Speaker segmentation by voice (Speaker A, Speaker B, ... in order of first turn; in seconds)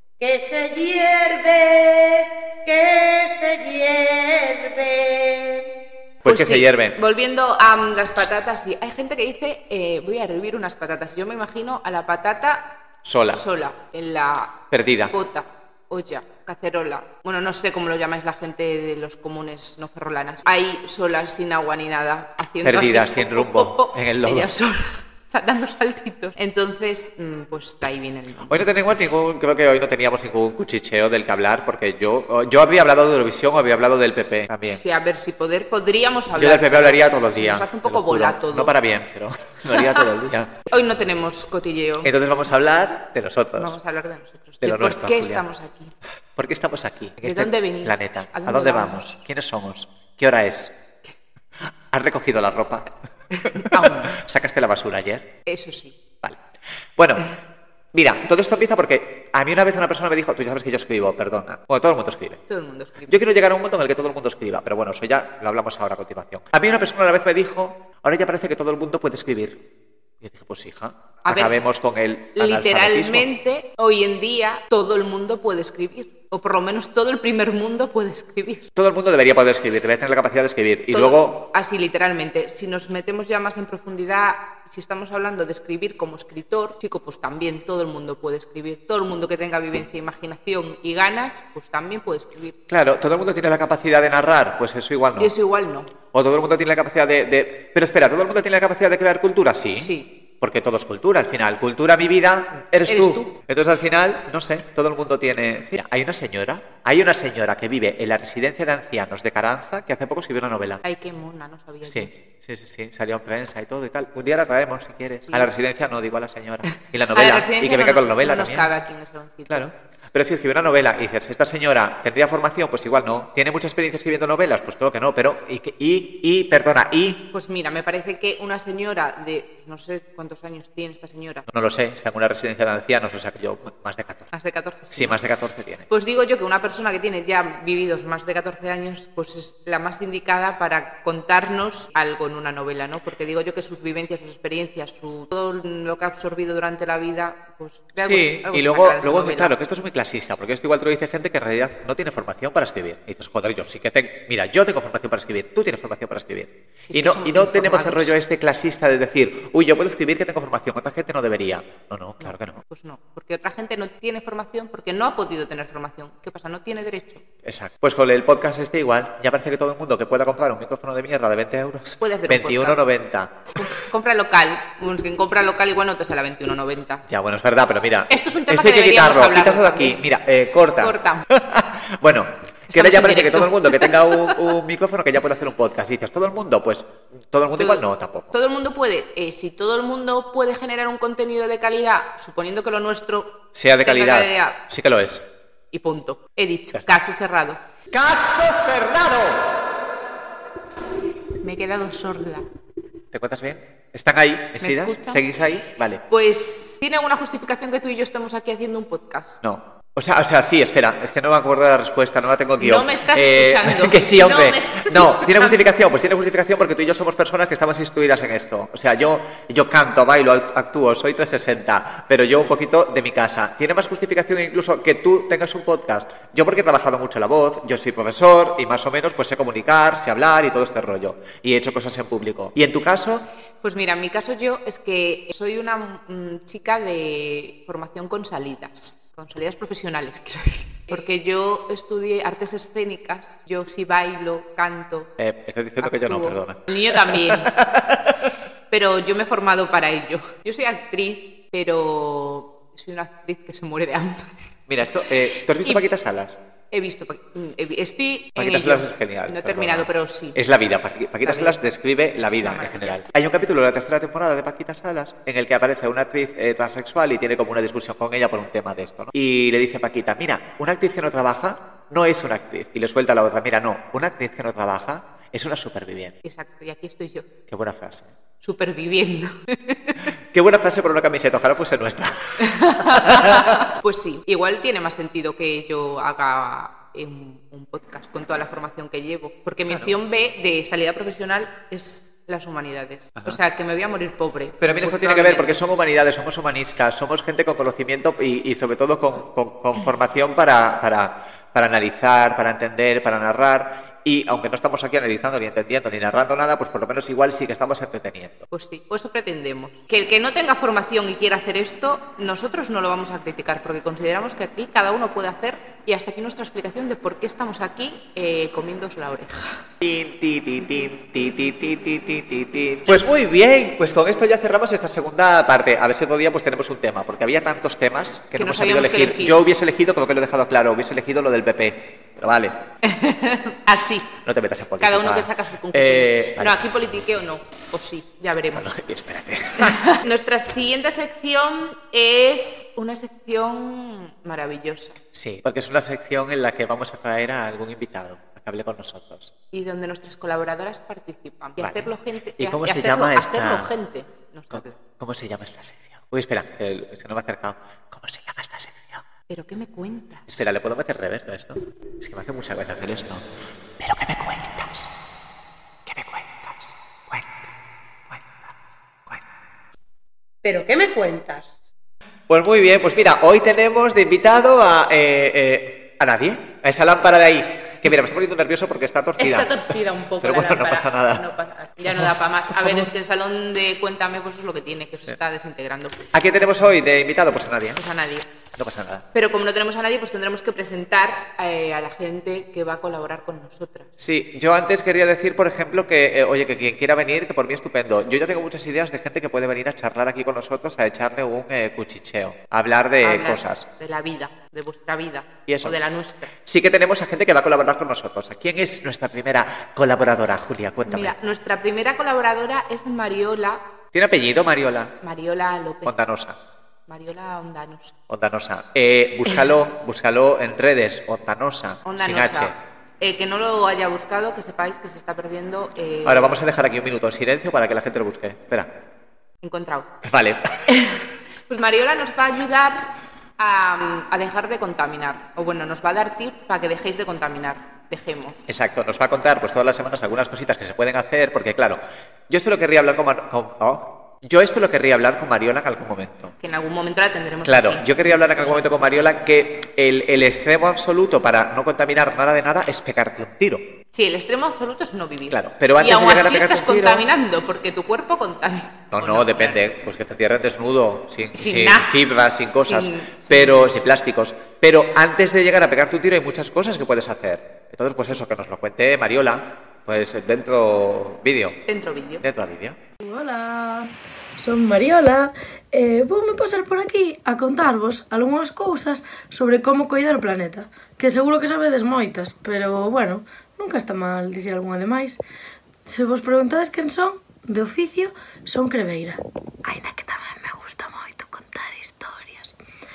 Speaker A: 0.2-5.7, 370.4-371.6
Speaker B: 6.2-7.0, 13.0-13.4, 14.7-15.1, 22.6-24.5, 28.4-34.8, 36.4-40.5, 42.0-43.7, 44.6-45.4, 46.4-50.8, 51.9-52.9, 53.4-55.3, 57.0-57.2, 57.9-62.4, 63.1-69.6, 70.2-73.3, 78.8-81.4, 92.7-95.3, 96.1-110.8, 111.8-118.7, 119.5-127.2, 131.5-134.3, 134.9-135.8, 148.0-162.6, 167.4-173.5, 177.1-188.3, 193.5-195.2, 197.9-199.6, 203.1-206.0, 209.4-233.3, 245.2-248.3, 254.7-256.4, 258.4-276.1, 277.5-278.1, 280.3-283.7, 289.7-289.9, 294.6-308.4, 319.8-332.6, 334.2-336.6, 338.5-339.9, 345.1-349.3, 351.6-353.7, 354.5-359.0, 360.3-363.2, 363.8-364.9, 365.8-367.5, 368.1-368.5, 372.3-379.6, 380.2-381.3, 381.8-382.9, 386.1-387.8, 388.6-389.1, 394.0-403.6, 405.5-405.7, 406.4-411.1, 413.9-414.9, 415.8-416.4, 418.1-422.5, 426.0-428.7, 430.0-430.5, 438.5-446.3, 447.4-453.7, 455.3-457.1, 458.9-471.6, 472.2-472.8
Speaker C: 6.2-12.8, 13.3-28.9, 34.6-38.7, 39.7-40.0, 40.7-42.1, 43.5-45.9, 47.2-49.1, 53.3-54.2, 55.5-56.0, 62.5-63.2, 71.2-71.6, 72.3-78.7, 80.9-92.5, 95.2-95.9, 99.8-100.1, 102.9-103.3, 110.8-112.2, 116.7-119.7, 127.3-131.5, 134.3-135.2, 135.9-149.5, 156.9-158.1, 162.2-167.2, 172.0-172.8, 173.6-177.0, 178.1-180.0, 180.8-181.3, 182.7-184.3, 187.6-194.6, 195.7-197.6, 201.4-202.4, 204.6-205.2, 206.1-209.4, 212.6-215.6, 233.6-245.1, 245.8-247.7, 248.7-254.3, 255.6-255.9, 256.7-260.4, 261.2-261.6, 262.2-263.0, 276.2-277.3, 278.4-280.0, 282.4-295.6, 308.5-319.6, 322.9-323.1, 328.4-329.4, 332.8-334.1, 334.8-338.8, 339.6-345.0, 349.5-354.8, 359.3-360.3, 379.2-386.0, 387.8-388.2, 389.1-393.9, 403.0-406.3, 410.9-413.6, 415.0-416.0, 416.9-417.9, 421.8-426.4, 429.4-429.9, 430.7-438.5, 446.4-448.8, 453.9-459.7, 461.3-461.9, 462.6-463.7, 471.7-472.2
Speaker D: 473.0-485.2, 485.9-492.5